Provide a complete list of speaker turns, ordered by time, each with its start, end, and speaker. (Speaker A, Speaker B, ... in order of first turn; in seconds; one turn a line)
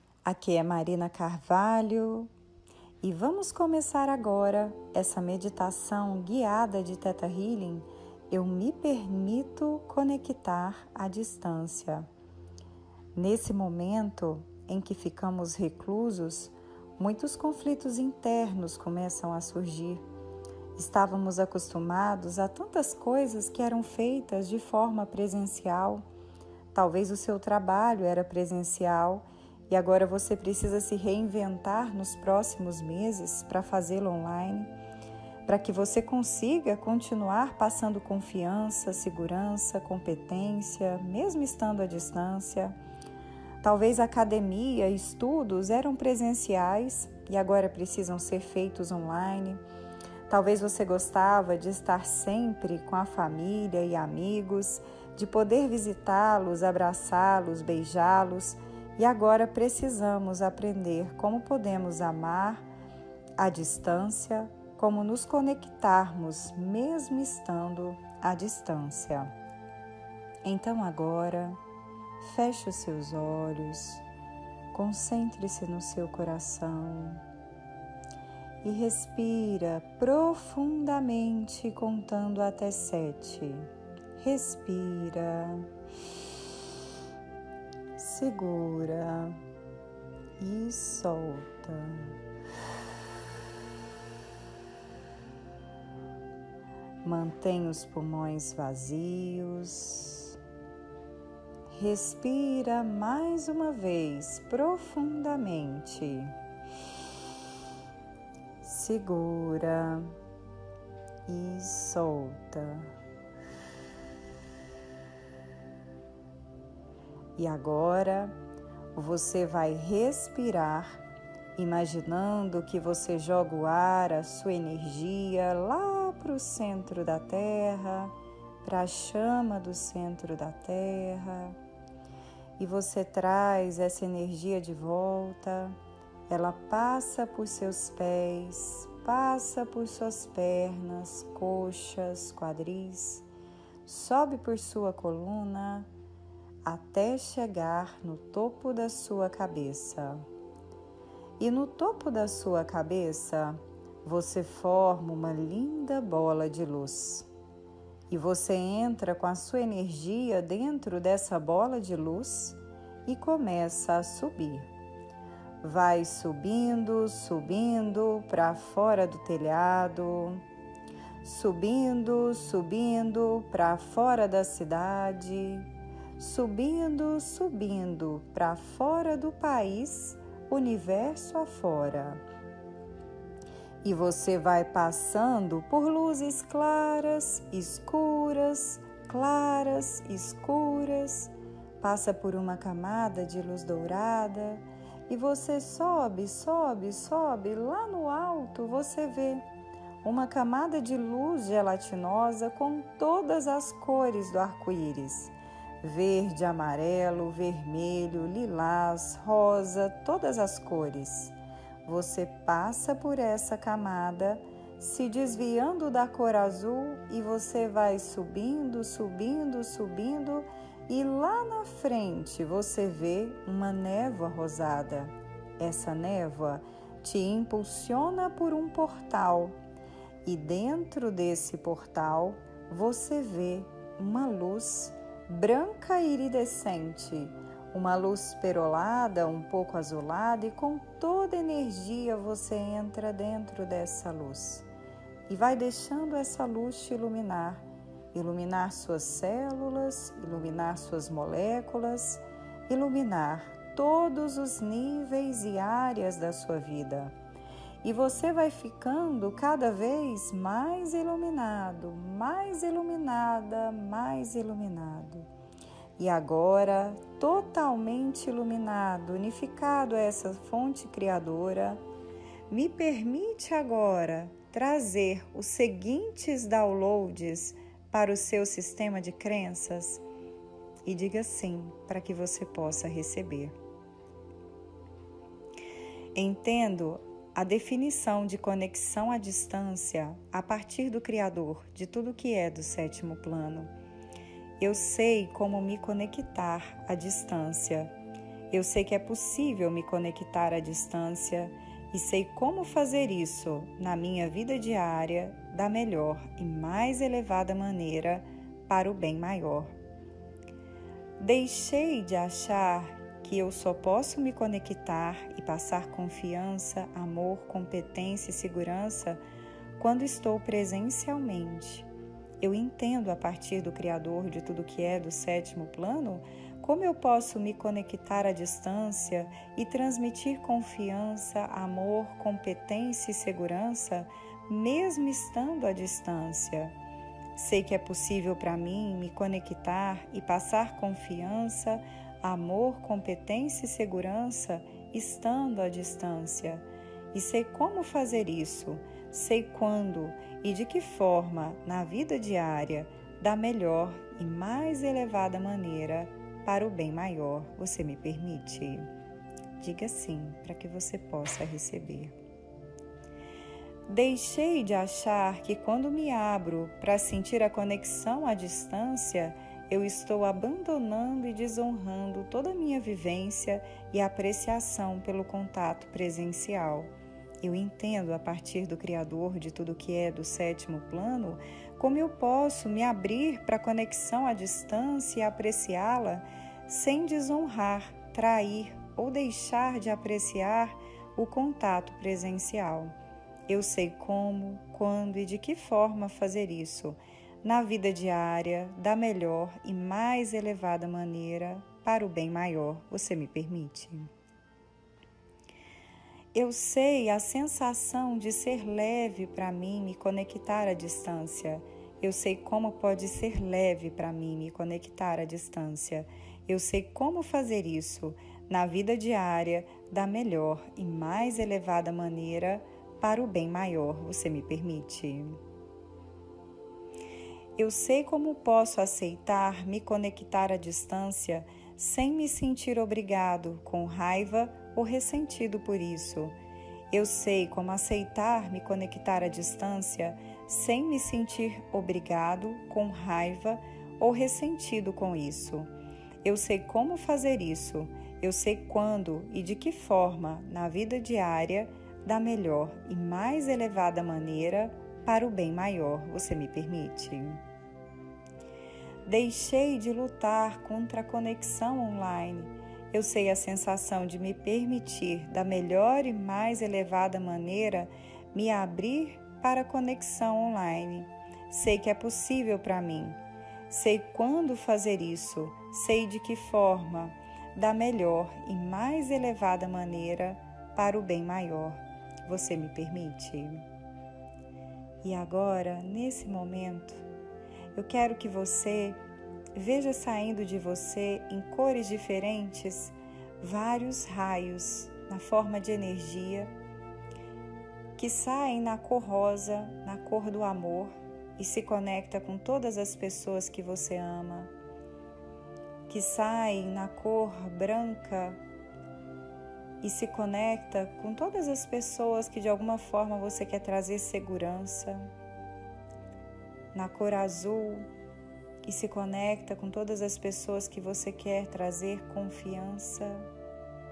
Speaker A: 0.2-2.3
Speaker A: 3.0-12.1
Speaker A: 13.1-20.0
Speaker A: 20.8-26.0
Speaker A: 26.7-34.7
Speaker A: 35.5-42.8
Speaker A: 43.6-49.6
Speaker A: 50.3-62.7
Speaker A: 63.4-69.3
Speaker A: 70.4-71.6
Speaker A: 72.2-74.0
Speaker A: 74.7-77.2
Speaker A: 78.6-85.7
Speaker A: 88.0-89.4
Speaker A: 90.4-92.2
Speaker A: 97.0-100.4
Speaker A: 101.7-106.3
Speaker A: 108.6-110.1
Speaker A: 111.2-112.9
Speaker A: 117.3-118.3
Speaker A: 118.9-121.0
Speaker A: 121.5-131.6
Speaker A: 132.6-143.2
Speaker A: 143.8-145.9
Speaker A: 146.6-150.2
Speaker A: 151.4-157.3
Speaker A: 158.1-164.7
Speaker A: 165.6-170.4
Speaker A: 171.2-182.2
Speaker A: 183.8-199.4
Speaker A: 200.0-229.6
Speaker A: 230.2-244.7
Speaker A: 245.3-257.1
Speaker A: 257.8-265.3
Speaker A: 266.0-271.8
Speaker A: 272.5-280.0
Speaker A: 280.8-283.5
Speaker A: 286.1-293.7
Speaker A: 294.6-297.9
Speaker A: 298.5-309.7
Speaker A: 311.2-319.2
Speaker A: 319.8-321.9
Speaker A: 322.4-336.7
Speaker A: 337.3-358.9
Speaker A: 359.6-362.1
Speaker A: 363.9-376.9
Speaker A: 377.4-392.9
Speaker A: 393.5-404.1
Speaker A: 406.3-425.4
Speaker A: 427.6-436.4
Speaker A: 436.9-445.7
Speaker A: 446.2-457.4
Speaker A: 459.1-473.2
Speaker A: 473.7-483.6
Speaker A: 485.0-487.0
Speaker A: 487.7-489.0
Speaker A: 489.5-496.5
Speaker A: 497.9-504.5
Speaker A: 505.9-508.4
Speaker A: 509.8-515.1
Speaker A: 516.7-517.9
Speaker A: 518.6-523.3